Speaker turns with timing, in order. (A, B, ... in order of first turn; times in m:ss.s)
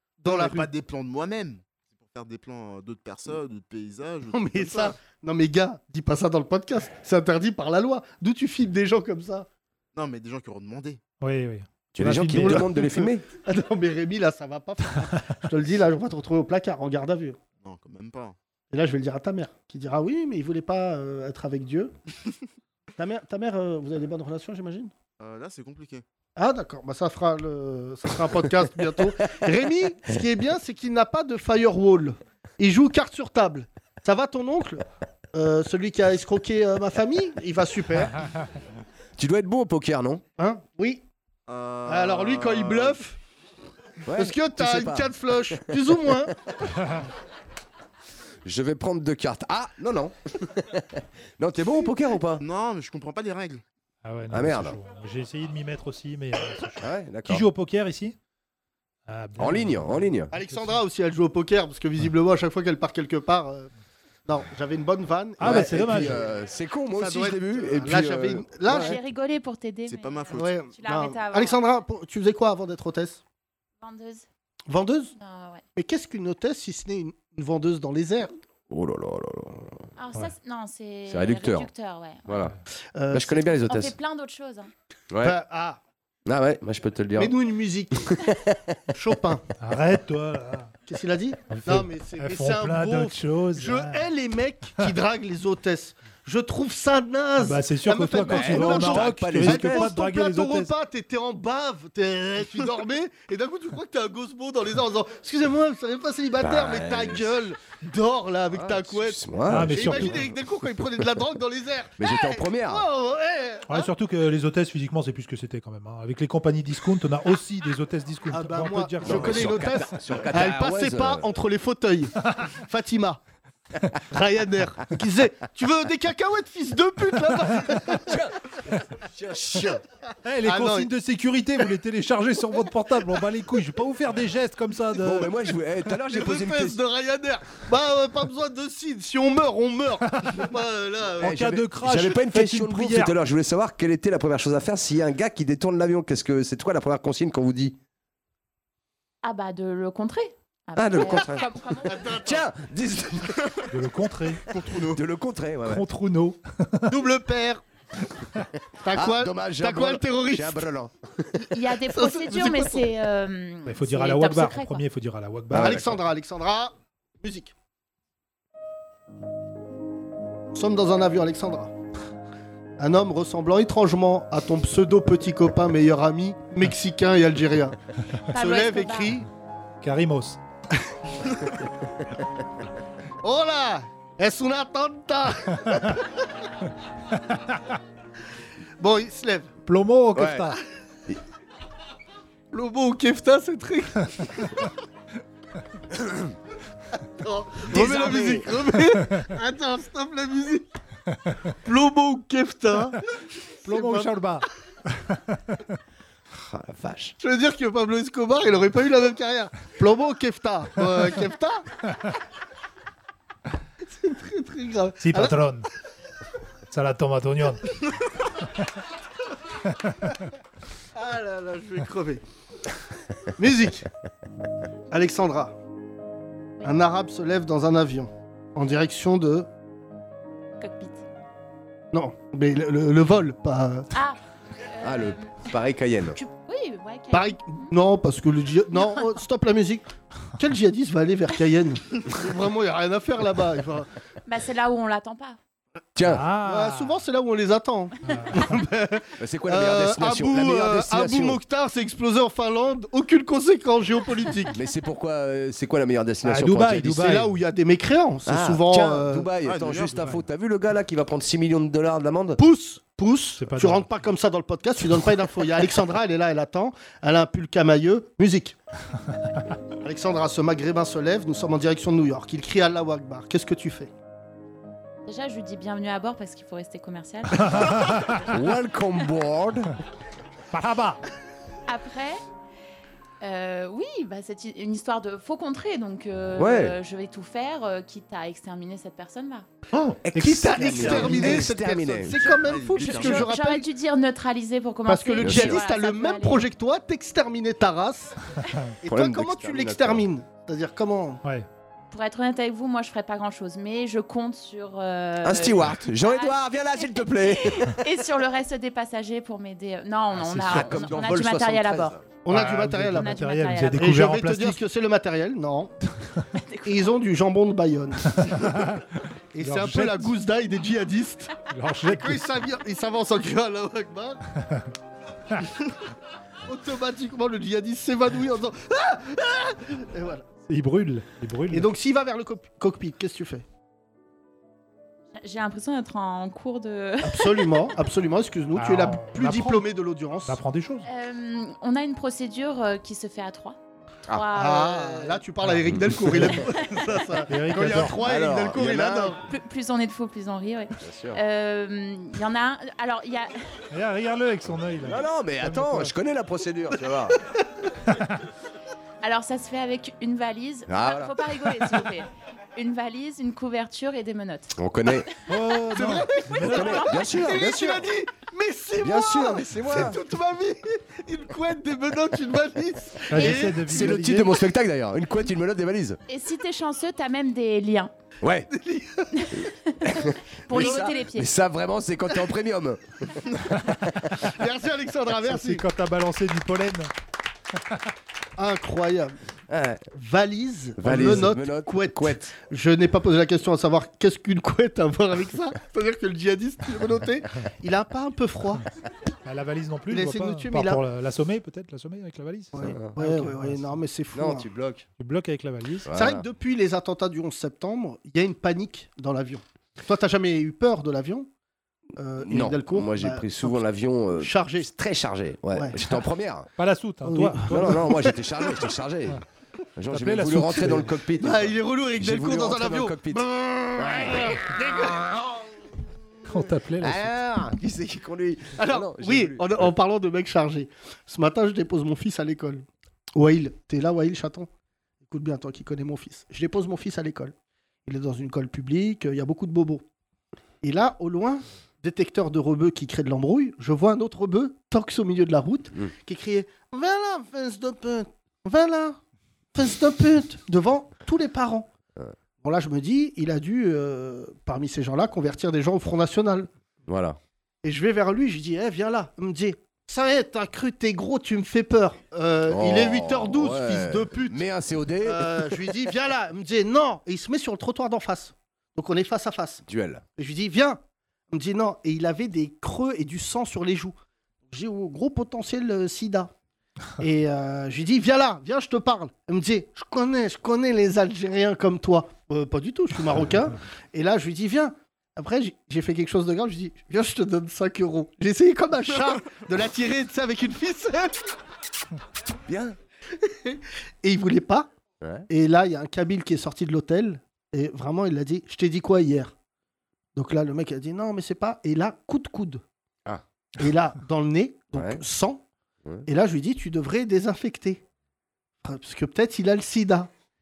0:00.2-0:05.0 A
0:00.2-0:00.7 B
0:04.3-0:09.5 B
0:09.9-0:11.0 A
0:11.2-0:12.8 C
0:11.9-0:13.2 D
0:12.4-0:17.4 B
0:17.6-0:18.4 A
0:18.7-0:21.9 B
0:23.0-0:24.9 B
0:25.2-0:26.0 A
0:26.4-0:38.1 B
0:39.2-0:40.2 D
0:40.4-0:41.0 B
0:41.5-0:43.0 A
0:41.8-0:43.2 B
0:44.0-0:46.0 D
0:44.1-0:46.4 B
0:48.4-0:52.4 D
0:52.4-0:53.6 A
0:54.0-0:58.2 C
0:54.3-0:54.7 D
0:56.8-0:57.4 D
0:59.1-1:00.8 C
0:59.4-1:00.3 D
1:00.3-1:03.7 B
1:04.2-1:06.2 B
1:05.4-1:06.2 C
1:05.4-1:09.0 D
1:06.9-1:09.0 B
1:08.7-1:11.6 E
1:09.8-1:10.6 A
1:10.3-1:13.2 B
1:13.8-1:14.2 E
1:14.7-1:15.1 B
1:15.2-1:15.6 E
1:15.8-1:18.3 B
1:18.7-1:19.8 D
1:20.0-1:22.4 E
1:21.1-1:21.7 D
1:22.2-1:22.5 D
1:22.9-1:23.5 B
1:23.1-1:23.9 D
1:23.6-1:24.7 E
1:25.1-1:25.4 D
1:25.2-1:25.8 B
1:26.2-1:27.3 D
1:27.2-1:28.2 B
1:28.0-1:28.7 D
1:28.9-1:29.4 B
1:29.6-1:30.7 C
1:30.9-1:53.9 B
1:31.5-1:34.0 C
1:37.4-1:40.7 C
1:38.2-1:39.9 D
1:46.4-1:47.4 D
1:48.5-1:50.2 D
1:49.5-1:50.3 C
1:52.0-1:52.8 D
1:53.7-1:59.9 C
1:58.3-2:03.2 B
1:59.0-2:01.2 D
2:04.1-2:08.1 B
2:07.8-2:09.8 D
2:10.2-2:15.3 C
2:10.4-2:10.9 B
2:15.0-2:16.8 D
2:16.1-2:21.4 B
2:20.2-2:20.4 C
2:21.2-2:23.1 C
2:21.2-2:27.8 D
2:29.2-2:32.1 E
2:30.8-2:33.5 D
2:31.8-2:32.4 B
2:33.7-2:34.4 C
2:34.5-2:35.0 A
2:34.7-2:35.8 D
2:35.7-2:36.9 C
2:36.9-2:37.6 B
2:38.8-2:40.7 B
2:38.9-2:41.4 D
2:41.5-2:44.8 E
2:41.8-2:42.9 B
2:43.6-2:45.9 C
2:45.5-2:45.9 D
2:45.5-2:47.5 B
2:50.5-2:51.7 B
2:52.8-2:57.8 B
2:58.3-2:59.1 E
2:58.3-2:59.3 B
2:59.8-3:00.4 C
3:03.2-3:06.1 B
3:08.8-3:09.5 B
3:09.6-3:10.6 C
3:10.1-3:10.5 D
3:12.5-3:14.6 B
3:17.2-3:20.6 B
3:17.7-3:18.6 D
3:21.6-3:23.0 B
3:23.6-3:24.2 B
3:23.6-3:25.6 C
3:26.3-3:27.1 D
3:27.2-3:31.6 B
3:33.8-3:35.4 B
3:35.0-3:35.7 C
3:36.7-3:37.7 C
3:40.9-3:42.2 B
3:43.4-3:43.9 B
3:44.9-3:45.5 B
3:46.6-3:46.9 E
3:46.6-3:49.5 B
3:50.6-3:51.0 E
3:51.9-3:53.9 B
3:53.9-3:55.5 E
3:54.8-3:56.2 D
3:56.2-3:57.7 E
3:57.1-4:03.9 B
3:58.8-3:59.0 E
4:04.2-4:05.4 E
4:06.0-4:06.2 D
4:06.0-4:07.0 C
4:06.4-4:14.6 B
4:08.0-4:08.6 C
4:09.2-4:11.4 D
4:14.5-4:17.1 D
4:16.2-4:17.3 C
4:17.0-4:19.3 B
4:18.2-4:22.4 D
4:19.4-4:20.1 A
4:22.4-4:28.6 B
4:23.4-4:23.9 C
4:29.8-4:33.9 B
4:35.1-4:37.8 E
4:37.3-4:38.2 C
4:38.2-4:39.7 D
4:40.5-4:41.0 C
4:41.7-4:42.2 E
4:43.2-4:49.4 E
4:46.4-4:46.7 D
4:49.8-4:52.3 D
4:50.2-4:53.6 B
4:50.2-4:51.4 C
4:52.4-4:53.3 A
4:52.7-4:56.5 E
4:54.9-4:58.2 B
4:55.2-4:55.6 D
4:58.8-5:01.2 B
4:58.8-5:00.0 D
5:01.9-5:12.0 E
5:05.2-5:07.8 D
5:10.2-5:10.8 C
5:10.3-5:11.9 D
5:12.2-5:13.2 B
5:12.3-5:14.6 C
5:12.9-5:13.8 E
5:13.7-5:15.7 B
5:16.4-5:16.9 E
5:16.6-5:18.5 B
5:18.2-5:18.8 C
5:19.3-5:21.3 B
5:19.4-5:20.1 C
5:21.5-5:22.2 C
5:21.9-5:24.2 B
5:26.4-5:30.2 B
5:30.5-5:31.7 C
5:31.5-5:33.4 B
5:35.2-5:37.7 E
5:37.0-5:40.4 B
5:38.5-5:39.6 C
5:40.3-5:40.9 C
5:40.8-5:43.6 E
5:44.1-5:45.2 E
5:44.3-5:49.2 B
5:45.4-5:46.4 C
5:46.5-5:46.9 E
5:47.3-5:48.0 C
5:47.8-5:49.3 D
5:49.2-5:53.4 E
5:50.8-5:51.2 D
5:53.7-5:55.9 C
5:54.8-5:57.2 D
5:59.0-6:04.6 E
6:00.7-6:01.2 D
6:04.6-6:05.0 D
6:05.3-6:06.8 C
6:05.7-6:14.2 B
6:06.4-6:07.9 D
6:08.8-6:10.0 D
6:13.1-6:14.3 C
6:13.2-6:16.0 D
6:16.1-6:17.9 E
6:18.2-6:18.5 D
6:18.5-6:19.1 B
6:19.2-6:21.3 E
6:19.8-6:23.2 D
6:20.5-6:20.8 B
6:24.2-6:25.6 B
6:25.2-6:26.9 C
6:28.4-6:29.2 B
6:29.5-6:29.8 D
6:29.9-6:38.6 B
6:30.8-6:32.3 D
6:39.2-6:43.8 C
6:39.9-6:40.8 B
6:42.5-6:44.5 B
6:42.6-6:42.9 D
6:44.1-6:44.9 D
6:45.0-6:45.9 C
6:45.8-6:46.2 D
6:45.9-6:51.3 B
6:52.0-6:53.6 B
6:52.2-6:56.5 D
6:54.2-6:54.7 B
6:55.5-6:55.8 B
6:56.6-6:57.7 C
6:57.0-6:58.2 B
6:57.5-6:59.2 D
6:59.8-7:05.0 D
6:59.9-7:00.9 C
7:01.2-7:05.1 B
7:06.3-7:07.1 C
7:06.8-7:09.7 D
7:08.6-7:14.5 B
7:15.0-7:17.3 B
7:17.8-7:19.8 B
7:20.6-7:29.0 B
7:29.5-7:31.7 B
7:32.4-7:36.5 B
7:36.9-7:37.2 D
7:37.6-7:44.4 B
7:42.5-7:45.5 D
7:45.0-7:49.6 B
7:49.6-7:50.0 D
7:50.2-7:50.8 B
7:51.3-7:53.9 B
7:54.5-7:56.3 B
7:57.0-8:11.3 B
8:12.4-8:12.8 D
8:13.3-8:14.7 B
8:15.0-8:15.3 D
8:15.3-8:19.3 B
8:20.1-8:22.6 B
8:23.6-8:25.4 B
8:24.7-8:25.0 D
8:26.0-8:27.8 B
8:28.6-8:30.1 B